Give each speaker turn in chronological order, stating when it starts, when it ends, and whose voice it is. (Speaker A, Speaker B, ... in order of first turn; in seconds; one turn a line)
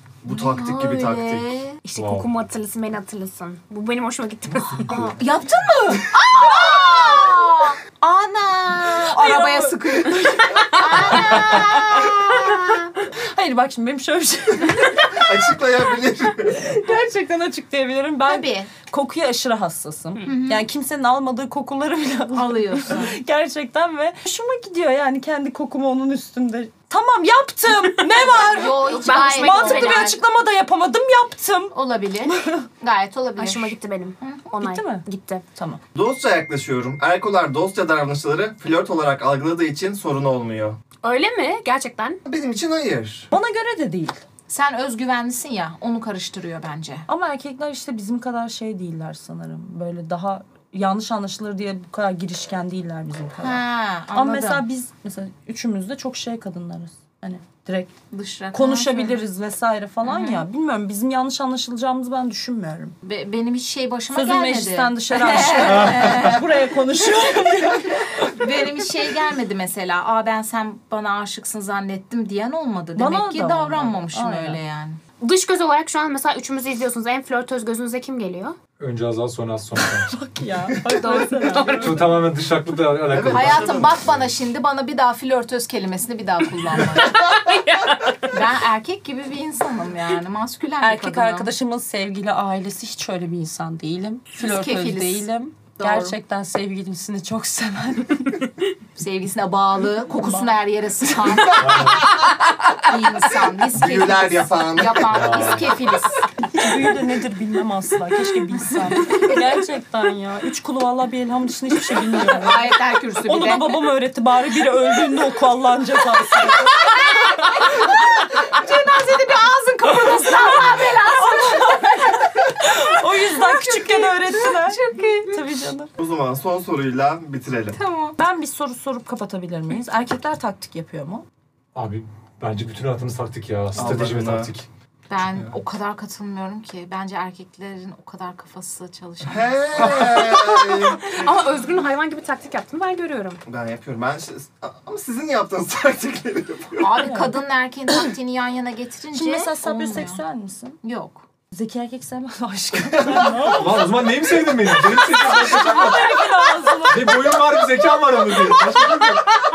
Speaker A: 0.2-1.5
Speaker B: 0.2-1.8
Speaker C: 1.8-4.9
Speaker D: 1.9-2.3
Speaker D: 4.8-5.1
Speaker B: 4.9-12.9
Speaker E: 8.9-12.2
Speaker E: 13.1-15.5
Speaker A: 15.1-16.6
Speaker E: 16.4-31.7
Speaker B: 18.2-18.7
Speaker B: 20.2-20.6
Speaker B: 22.3-23.1
Speaker B: 28.2-30.2
Speaker C: 28.9-30.2
Speaker B: 31.7-34.5
Speaker E: 32.2-32.6
Speaker C: 33.4-35.4
Speaker E: 34.6-35.8
Speaker A: 35.9-40.8
Speaker C: 41.0-42.2
Speaker A: 42.3-43.3
Speaker E: 43.3-44.2
Speaker B: 44.5-47.0
Speaker E: 47.1-58.0
Speaker B: 53.4-54.6
Speaker B: 58.1-59.2
Speaker E: 58.5-62.9
Speaker B: 60.0-60.4
Speaker B: 63.0-75.0
Speaker E: 64.1-68.5
Speaker E: 73.0-74.6
Speaker C: 75.2-78.5
Speaker D: 78.8-80.1
Speaker E: 80.1-82.1
Speaker C: 80.8-82.2
Speaker D: 81.7-83.9
Speaker A: 83.0-84.1
Speaker B: 83.3-87.4
Speaker C: 86.8-88.2
Speaker B: 88.3-91.5
Speaker E: 90.8-98.5
Speaker B: 94.4-96.2
Speaker B: 99.0-106.2
Speaker E: 100.2-100.5
Speaker E: 101.2-101.8
Speaker D: 101.6-102.1
Speaker A: 103.7-105.4
Speaker D: 105.1-105.9
Speaker E: 106.4-116.9
Speaker B: 112.3-113.8
Speaker B: 116.6-125.5
Speaker E: 117.6-117.8
Speaker E: 120.7-125.9
Speaker A: 126.0-127.8
Speaker B: 127.7-128.2
Speaker E: 128.2-131.2
Speaker D: 131.7-134.7
Speaker A: 133.7-134.5
Speaker B: 135.1-140.1
Speaker A: 139.2-141.1
Speaker C: 141.0-143.4
Speaker A: 143.5-147.0
Speaker B: 146.8-150.2
Speaker E: 146.9-147.3
Speaker E: 149.1-150.8
Speaker B: 150.8-151.2
Speaker E: 151.5-153.9
Speaker D: 153.4-156.2
Speaker E: 154.7-157.5
Speaker D: 156.8-159.3